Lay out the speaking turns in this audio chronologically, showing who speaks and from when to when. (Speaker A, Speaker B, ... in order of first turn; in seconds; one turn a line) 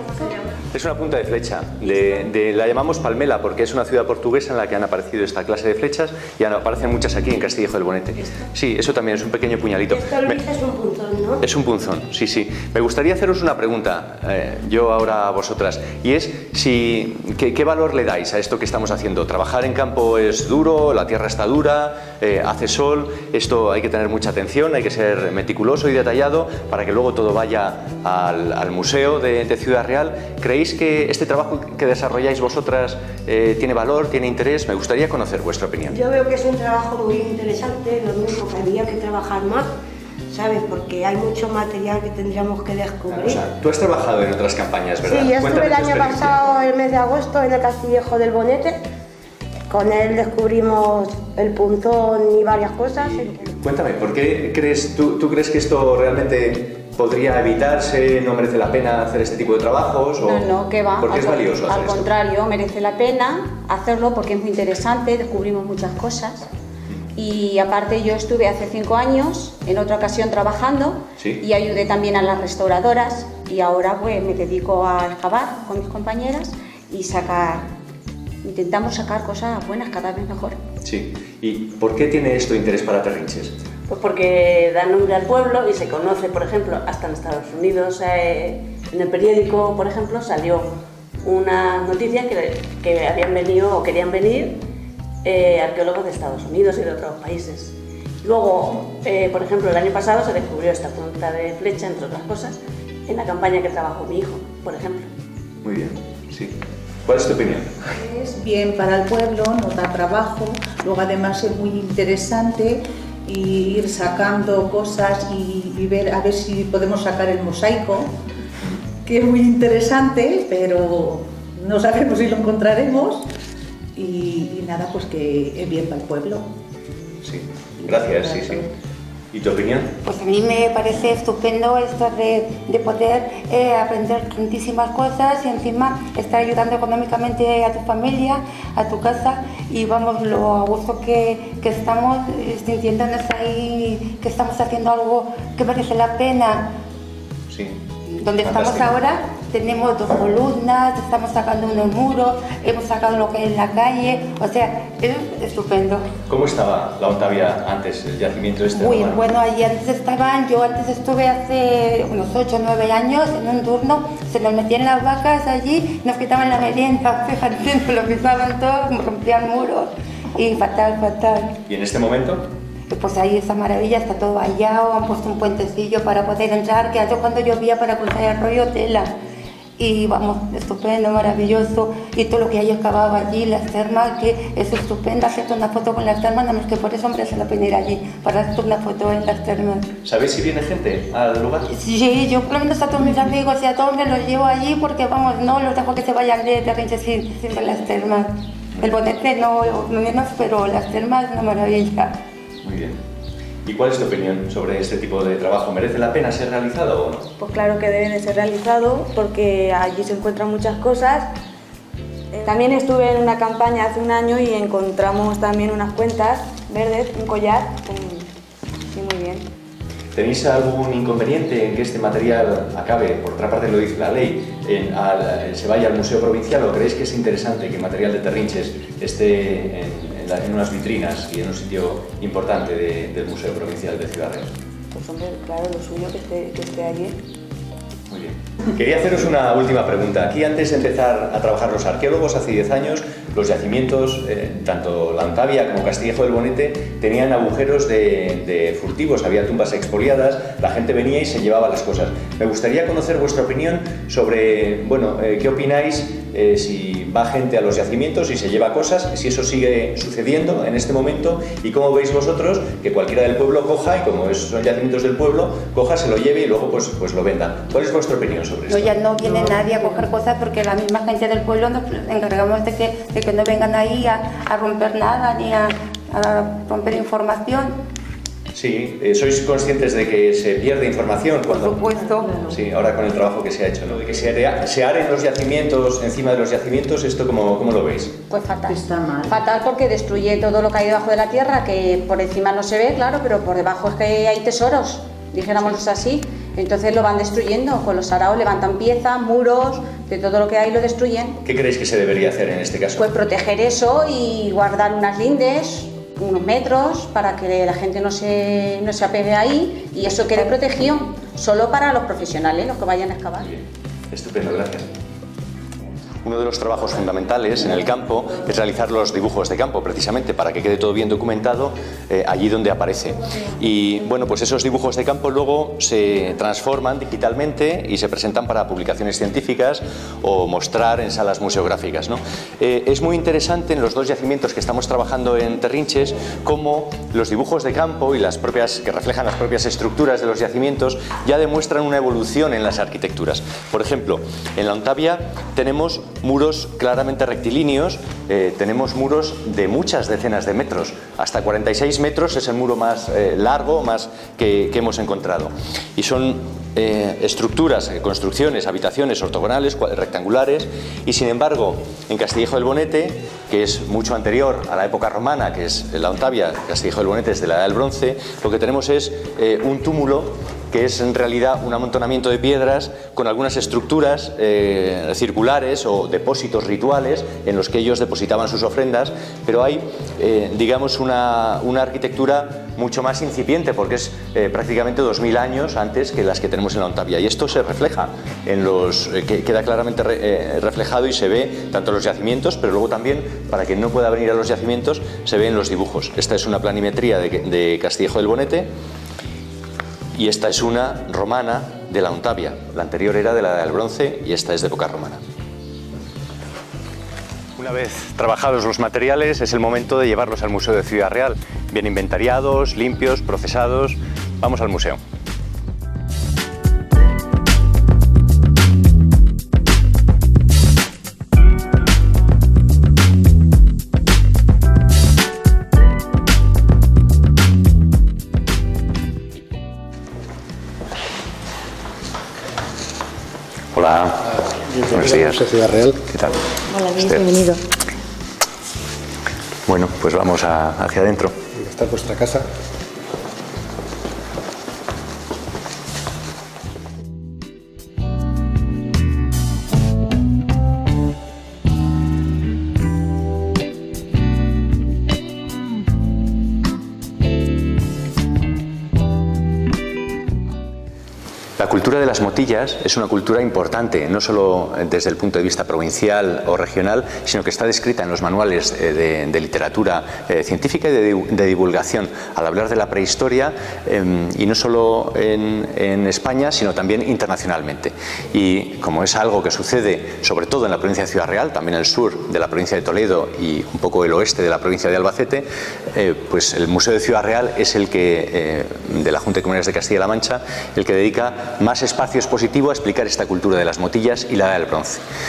Speaker A: 0.7-10.4
Speaker B: 9.9-11.4
Speaker A: 11.4-36.0
Speaker B: 35.9-39.7
Speaker B: 40.3-43.4
Speaker A: 43.1-46.4
Speaker B: 45.0-48.8
Speaker B: 49.7-53.5
Speaker A: 53.0-62.1
Speaker C: 60.2-66.5
Speaker C: 67.2-77.7
Speaker C: 78.4-80.6
Speaker A: 80.8-83.5
Speaker D: 83.9-90.7
Speaker D: 91.2-94.6
Speaker D: 95.2-102.6
Speaker D: 103.1-105.1
Speaker A: 105.6-107.8
Speaker E: 108.0-118.2
Speaker E: 119.0-123.3
Speaker E: 124.0-126.5
Speaker A: 127.2-128.7
Speaker A: 129.3-129.9
Speaker F: 130.0-146.8
Speaker A: 147.5-147.8
Speaker F: 148.1-156.1
Speaker A: 148.4-148.9
Speaker A: 156.3-159.2
Speaker F: 158.7-171.6
Speaker A: 171.7-172.4
Speaker F: 172.9-179.1
Speaker F: 179.8-189.9
Speaker A: 190.1-191.7
Speaker F: 191.7-202.2
Speaker A: 202.6-203.0
Speaker A: 203.7-207.3
Speaker G: 207.4-211.3
Speaker G: 212.3-218.3
Speaker G: 218.9-219.5
Speaker A: 220.1-234.5
Speaker G: 234.9-237.2
Speaker A: 238.1-268.9
Speaker F: 268.7-277.8
Speaker E: 269.4-270.0
Speaker A: 278.5-281.8
Speaker F: 281.5-282.4
Speaker E: 282.1-282.6
Speaker A: 282.5-288.1
Speaker C: 288.3-301.4
Speaker E: 288.7-289.4
Speaker A: 301.4-303.0
Speaker C: 303.0-313.5
Speaker A: 313.4-314.9
Speaker A: 316.2-398.7
Speaker A: 400.1-405.2
Speaker A: 407.6-415.0
Speaker A: 433.7-434.2
Speaker H: 434.6-436.0
Speaker A: 434.9-435.4
Speaker A: 436.1-436.4
Speaker A: 436.9-437.3
Speaker A: 439.7-441.4
Speaker H: 441.6-442.4
Speaker A: 461.6-495.0